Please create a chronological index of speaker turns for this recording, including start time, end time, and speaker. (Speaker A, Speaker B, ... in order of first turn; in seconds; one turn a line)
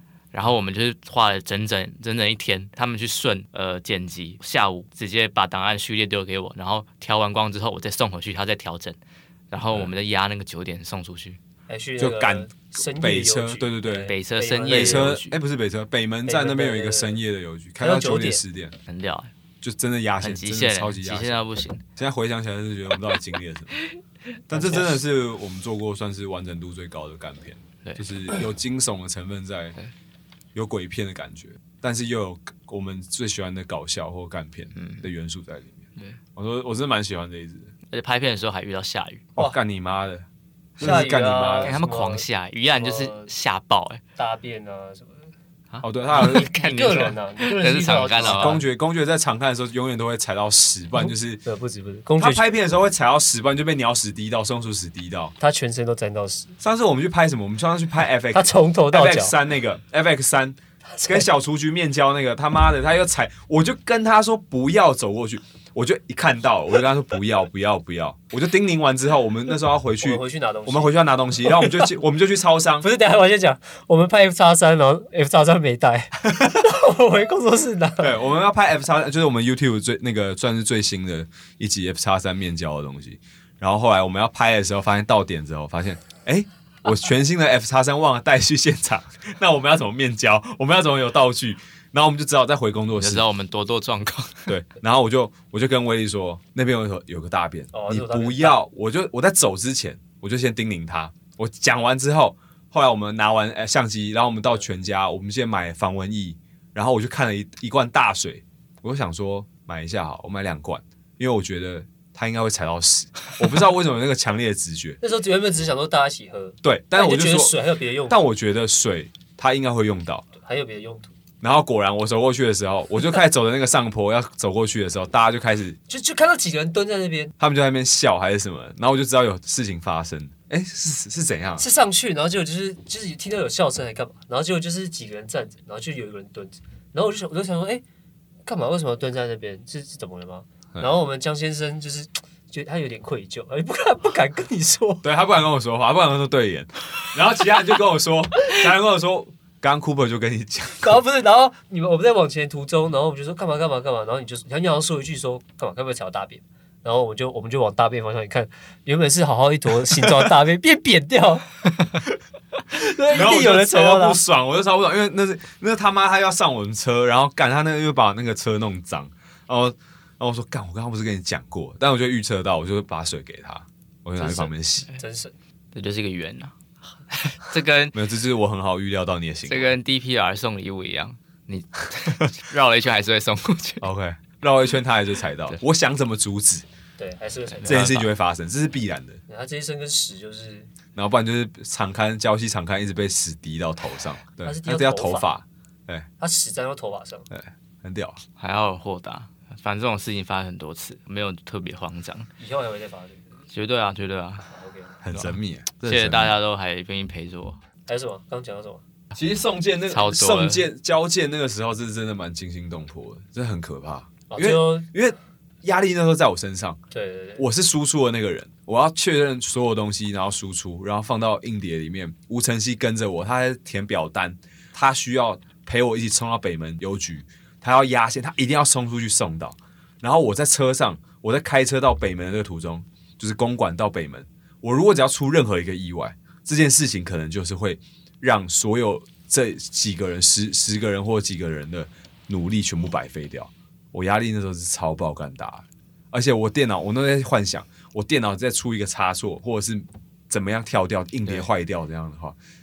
Speaker A: 0.3-9.0
Speaker A: 9.5-11.4
Speaker B: 9.6-9.9
Speaker C: 11.7-15.1
Speaker B: 12.0-14.1
Speaker A: 14.1-15.4
Speaker B: 14.7-18.7
Speaker C: 16.2-17.2
Speaker C: 17.8-18.4
Speaker A: 18.9-19.3
Speaker B: 19.6-21.4
Speaker A: 20.2-21.8
Speaker B: 21.9-23.8
Speaker B: 24.5-29.8
Speaker C: 24.5-24.9
Speaker B: 30.5-35.8
Speaker A: 34.7-35.1
Speaker B: 36.3-37.7
Speaker A: 37.9-39.2
Speaker B: 39.3-40.2
Speaker B: 40.8-41.8
Speaker C: 40.8-43.3
Speaker A: 41.6-44.0
Speaker C: 44.2-45.3
Speaker A: 45.7-48.6
Speaker B: 45.8-46.5
Speaker C: 46.1-48.6
Speaker B: 48.2-51.4
Speaker C: 51.0-52.5
Speaker B: 52.2-55.3
Speaker C: 55.4-56.5
Speaker B: 56.6-72.9
Speaker C: 58.3-59.3
Speaker C: 60.9-61.3
Speaker C: 70.0-71.9
Speaker C: 72.8-78.2
Speaker B: 78.0-93.2
Speaker A: 93.0-94.6
Speaker B: 94.5-115.0
Speaker C: 97.7-98.6
Speaker C: 115.0-118.2
Speaker B: 116.6-120.3
Speaker C: 120.4-121.1
Speaker B: 121.4-125.8
Speaker C: 125.9-127.3
Speaker B: 127.4-131.6
Speaker C: 131.6-137.8
Speaker C: 138.4-145.1
Speaker B: 145.0-151.0
Speaker C: 150.8-161.5
Speaker C: 162.7-164.2
Speaker B: 163.1-174.9
Speaker C: 174.2-175.3
Speaker A: 175.7-178.0
Speaker B: 177.9-179.7
Speaker A: 179.5-183.8
Speaker B: 183.8-186.7
Speaker C: 187.0-187.9
Speaker A: 187.5-188.1
Speaker B: 187.6-189.2
Speaker C: 189.3-190.7
Speaker B: 190.9-196.1
Speaker C: 194.4-195.3
Speaker C: 196.2-197.3
Speaker B: 197.3-198.2
Speaker A: 198.4-202.3
Speaker C: 202.4-203.3
Speaker A: 203.5-204.5
Speaker C: 204.5-205.0
Speaker B: 205.0-206.4
Speaker A: 205.1-207.6
Speaker C: 207.9-208.8
Speaker B: 209.1-216.8
Speaker A: 209.9-210.6
Speaker C: 214.3-214.9
Speaker C: 216.9-217.4
Speaker B: 217.4-252.3